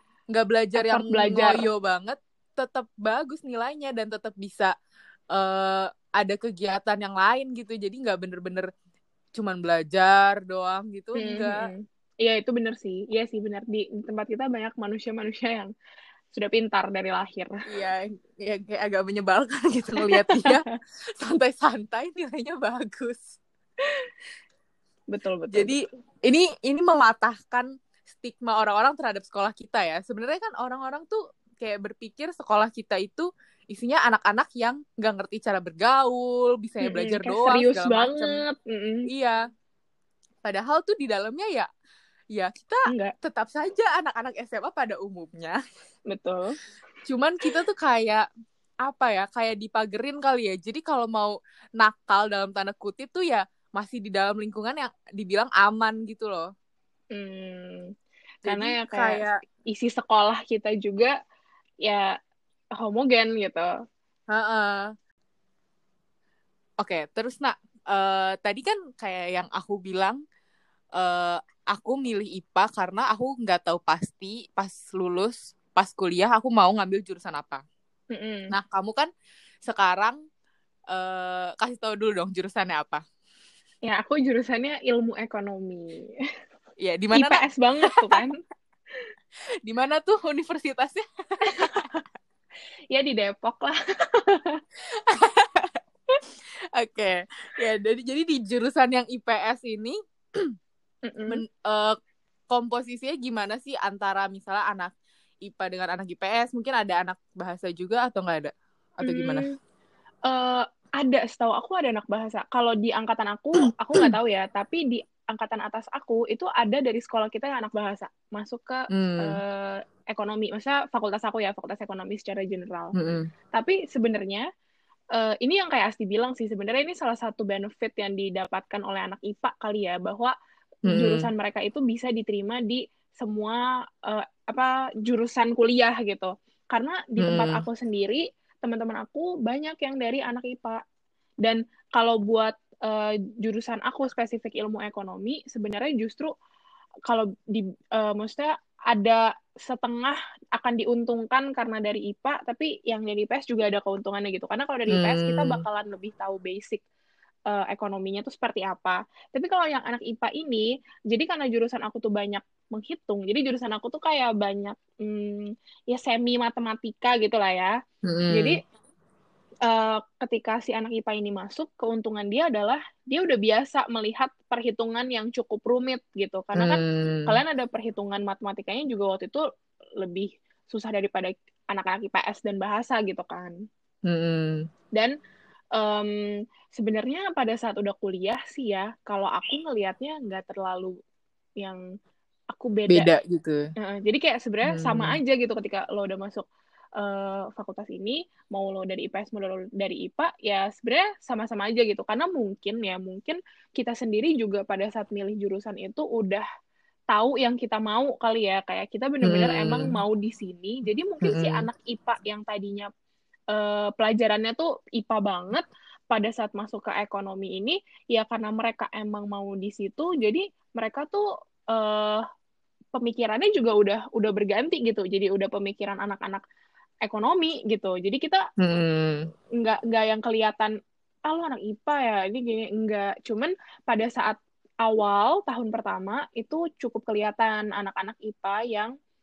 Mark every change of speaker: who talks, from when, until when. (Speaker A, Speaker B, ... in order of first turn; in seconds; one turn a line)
Speaker A: 0.3-4.7
Speaker B: 0.8-1.6
Speaker A: 5.3-8.7
Speaker A: 9.3-11.7
Speaker B: 11.2-15.7
Speaker B: 16.3-17.6
Speaker A: 17.6-20.6
Speaker B: 20.0-20.7
Speaker A: 21.2-23.4
Speaker B: 25.1-25.8
Speaker A: 25.5-38.4
Speaker B: 36.8-39.1
Speaker A: 39.1-39.4
Speaker A: 40.4-41.7
Speaker A: 42.3-45.6
Speaker B: 46.1-46.5
Speaker A: 47.1-48.2
Speaker A: 48.8-56.5
Speaker B: 57.1-57.9
Speaker A: 58.5-59.4
Speaker B: 58.5-61.1
Speaker B: 61.8-62.1
Speaker B: 62.8-63.7
Speaker A: 64.3-64.9
Speaker A: 66.8-70.2
Speaker A: 71.0-77.6
Speaker B: 78.1-78.5
Speaker A: 78.5-79.1
Speaker A: 79.6-80.2
Speaker A: 80.9-83.0
Speaker B: 83.8-86.1
Speaker A: 86.8-88.2
Speaker B: 87.1-88.3
Speaker A: 89.6-91.9
Speaker B: 91.5-92.0
Speaker B: 92.9-94.6
Speaker A: 94.9-95.8
Speaker A: 96.8-100.5
Speaker B: 101.1-101.4
Speaker A: 101.3-102.0
Speaker A: 102.5-104.9
Speaker A: 105.4-109.5
Speaker B: 109.0-109.5
Speaker B: 110.3-122.9
Speaker A: 118.9-119.4
Speaker A: 122.9-123.3
Speaker B: 123.5-124.5
Speaker B: 125.1-130.3
Speaker B: 130.9-140.8
Speaker A: 130.9-131.3
Speaker A: 137.2-137.6
Speaker B: 141.4-146.3
Speaker B: 147.1-156.8
Speaker A: 154.9-155.6
Speaker B: 157.5-167.8
Speaker A: 168.0-168.5
Speaker B: 168.3-168.6
Speaker B: 169.7-179.4
Speaker A: 176.6-177.4
Speaker B: 180.0-183.5
Speaker A: 184.0-184.7
Speaker B: 185.7-190.9
Speaker B: 192.5-193.1
Speaker A: 192.9-193.6
Speaker B: 193.8-196.4
Speaker A: 194.7-195.2
Speaker B: 197.0-206.4
Speaker B: 207.1-212.9
Speaker A: 209.2-209.9
Speaker A: 211.2-211.6
Speaker B: 213.5-222.2
Speaker B: 222.9-226.4
Speaker B: 227.0-228.4
Speaker A: 228.6-229.3
Speaker B: 229.6-230.7
Speaker B: 231.3-238.9